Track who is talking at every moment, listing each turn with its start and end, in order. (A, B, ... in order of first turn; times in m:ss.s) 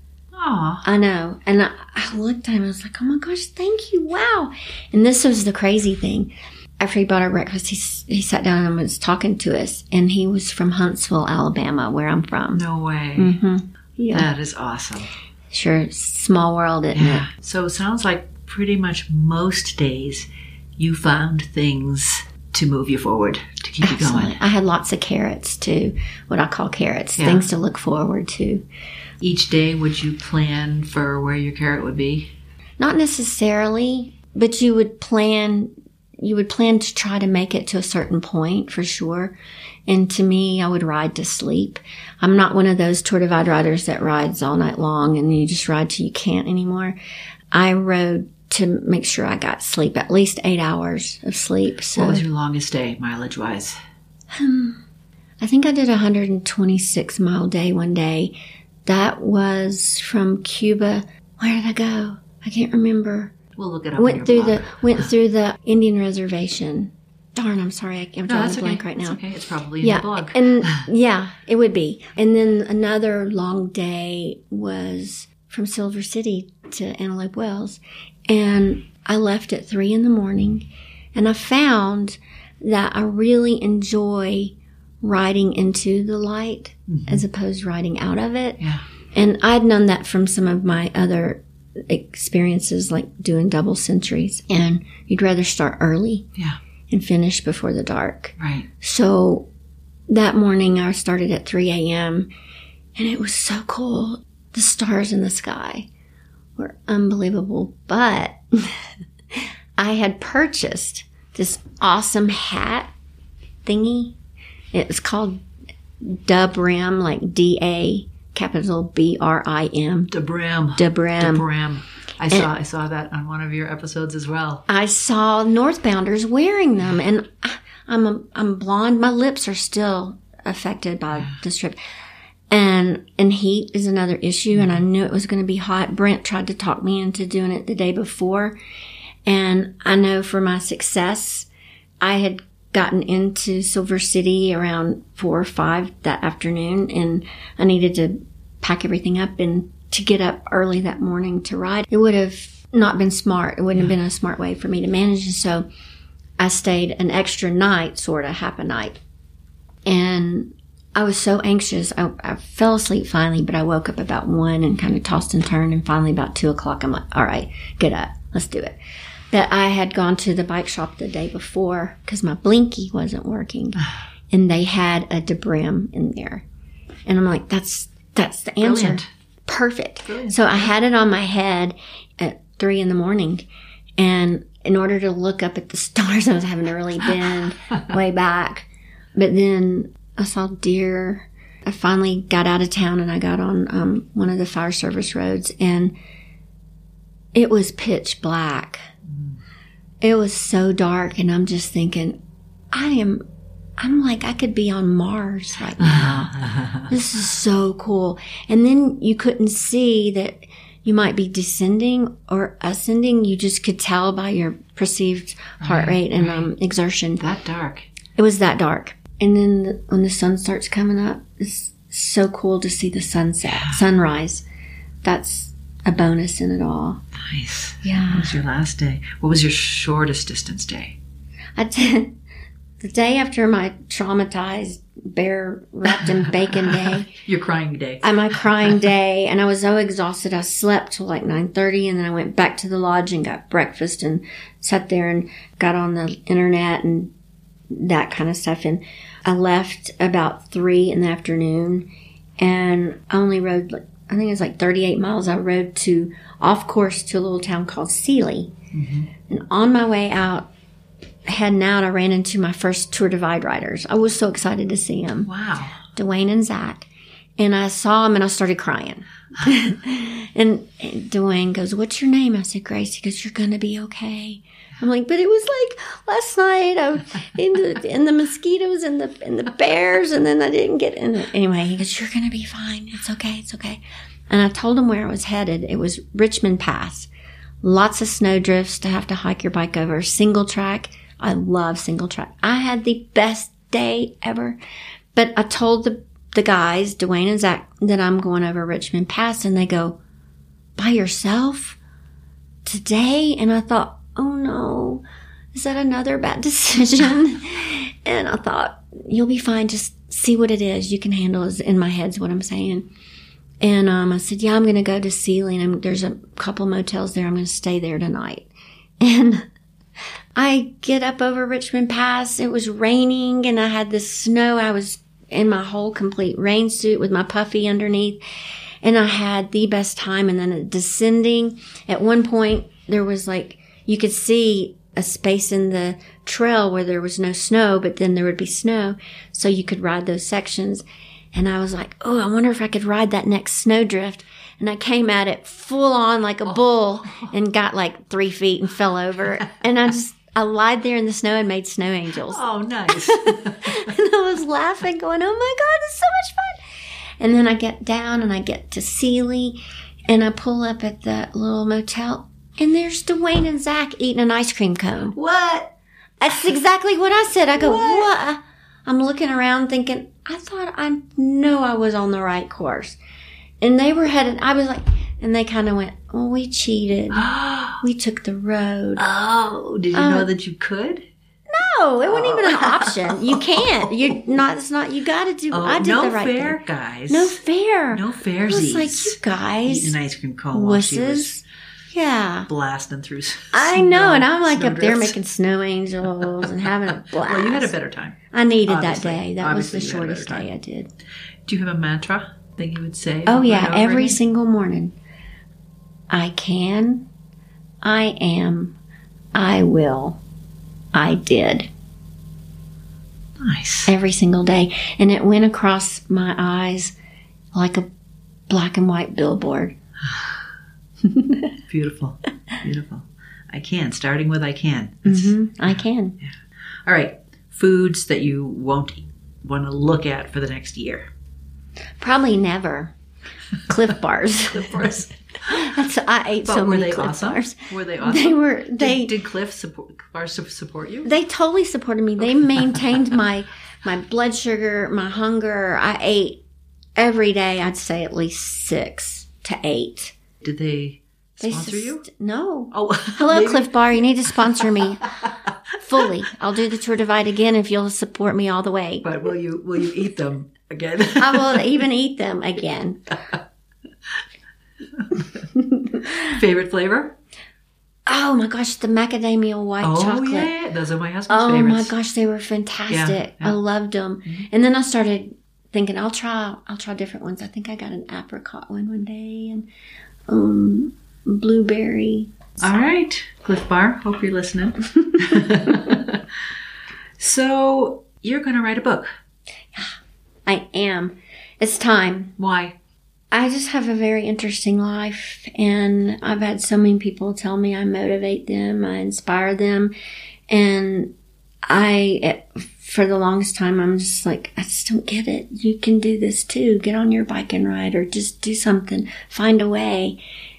0:00.3-0:00.8 A
0:00.8-0:12.6 B
0:12.5-0:13.3 A
0:13.2-0:14.3 B
0:14.1-0:15.1 A
0:15.5-0:17.2 B
0:16.9-0:20.3 A
0:20.8-0:24.4 A
0:23.8-0:28.6 B
0:27.2-0:27.5 A
0:29.2-0:32.3 A
0:32.8-0:39.3 B
0:39.9-0:47.0 B
0:47.5-0:52.2 B
0:51.9-0:53.8 A
0:54.3-0:54.8 B
0:55.4-0:58.3 B
0:58.8-1:03.3 B
1:03.6-1:05.0 A
1:04.0-1:09.2 B
1:08.3-1:10.8 A
1:09.8-1:28.6 B
1:26.9-1:27.2 A
1:28.6-1:28.8 A
1:29.1-1:36.3 B
1:36.9-1:39.5 B
1:38.4-1:38.7 A
1:40.1-1:42.3 B
1:43.0-1:45.9 B
1:46.6-1:52.9 B
1:53.6-1:54.1 B
1:54.7-1:55.4 B
1:56.0-2:00.1 B
2:00.1-2:04.6 A
2:00.8-2:01.4 B
2:04.7-2:11.8 B
2:11.1-2:11.4 A
2:12.5-2:18.6 B
2:19.2-2:21.5 B
2:22.0-2:35.6 B
2:36.4-2:39.0 B
2:39.8-2:48.8 B
2:49.3-2:53.8 B
2:54.3-2:56.4 B
2:57.0-3:03.4 B
2:58.6-2:59.1 A
3:00.0-3:00.7 A
3:04.0-3:15.9 B
3:17.3-3:18.8 B
3:19.0-3:19.4 A
3:20.0-3:22.2 B
3:22.7-3:23.2 B
3:23.8-3:37.2 B
3:25.8-3:26.9 A
3:35.6-3:36.5 A
3:37.2-3:37.9 A
3:38.2-3:44.4 B
3:43.4-3:43.8 A
3:45.0-3:47.0 B
3:47.2-3:51.0 A
3:47.8-3:48.3 B
3:51.6-3:52.1 B
3:52.8-3:57.1 B
3:55.9-3:58.8 A
3:58.0-4:07.1 B
4:07.7-4:11.9 B
4:12.4-4:18.5 B
4:18.7-4:19.1 A
4:19.2-4:20.5 B
4:21.3-4:25.3 B
4:25.2-4:25.8 A
4:25.9-4:26.9 B
4:27.4-4:47.1 B
4:47.6-4:54.6 B
4:55.1-5:00.0 B
5:00.8-5:01.8 B
5:02.6-5:05.0 B
5:05.5-5:12.9 B
5:13.6-5:19.4 B
5:20.4-5:28.2 B
5:28.8-5:56.7 B
5:46.5-5:47.3 A
5:52.2-5:53.8 A
5:57.2-5:59.6 B
6:00.1-6:05.1 B
6:05.1-6:05.7 A
6:06.2-6:13.0 B
6:07.6-6:08.1 A
6:13.6-6:17.2 B
6:17.1-6:17.8 A
6:17.8-6:19.0 B
6:19.0-6:21.1 A
6:19.9-6:20.3 B
6:21.5-6:30.0 B
6:22.0-6:23.9 A
6:25.5-6:27.4 A
6:27.9-6:31.3 A
6:30.5-6:32.5 B
6:32.5-6:35.2 A
6:33.5-6:37.7 B
6:36.9-6:40.5 A
6:38.3-6:40.9 B
6:41.4-6:44.2 A
6:43.3-6:44.9 B
6:46.1-6:47.0 B
6:47.8-6:48.7 B
6:49.3-6:50.2 B
6:50.9-6:51.7 B
6:53.4-6:53.9 A
6:53.9-6:56.9 B
6:57.5-6:57.9 B
6:58.5-6:59.7 B
7:00.1-7:00.4 A
7:01.0-7:01.5 B
7:01.7-7:05.3 A
7:05.0-7:06.2 B
7:06.2-7:11.1 A
7:12.0-7:12.9 B
7:13.7-7:14.9 B
7:14.5-7:15.7 A
7:15.4-7:19.1 B
7:16.4-7:21.1 A
7:21.0-7:26.4 B
7:27.0-7:30.2 B
7:30.4-7:32.0 A
7:31.4-7:35.1 B
7:32.7-7:33.7 A
7:34.3-7:35.3 A
7:35.8-7:39.0 B
7:39.0-7:41.6 A
7:41.2-7:43.0 B
7:45.0-7:45.2 A
7:45.5-7:46.2 B
7:46.2-7:47.1 A
7:48.0-7:50.5 B
7:49.8-7:51.9 A
7:51.3-7:59.7 B
7:52.9-7:53.6 A
8:00.3-8:02.8 B
8:02.6-8:06.2 A
8:07.2-8:09.1 A
8:09.7-8:12.3 B
8:12.4-8:12.7 A
8:13.3-8:19.9 B
8:20.5-8:21.1 B
8:21.7-8:30.2 B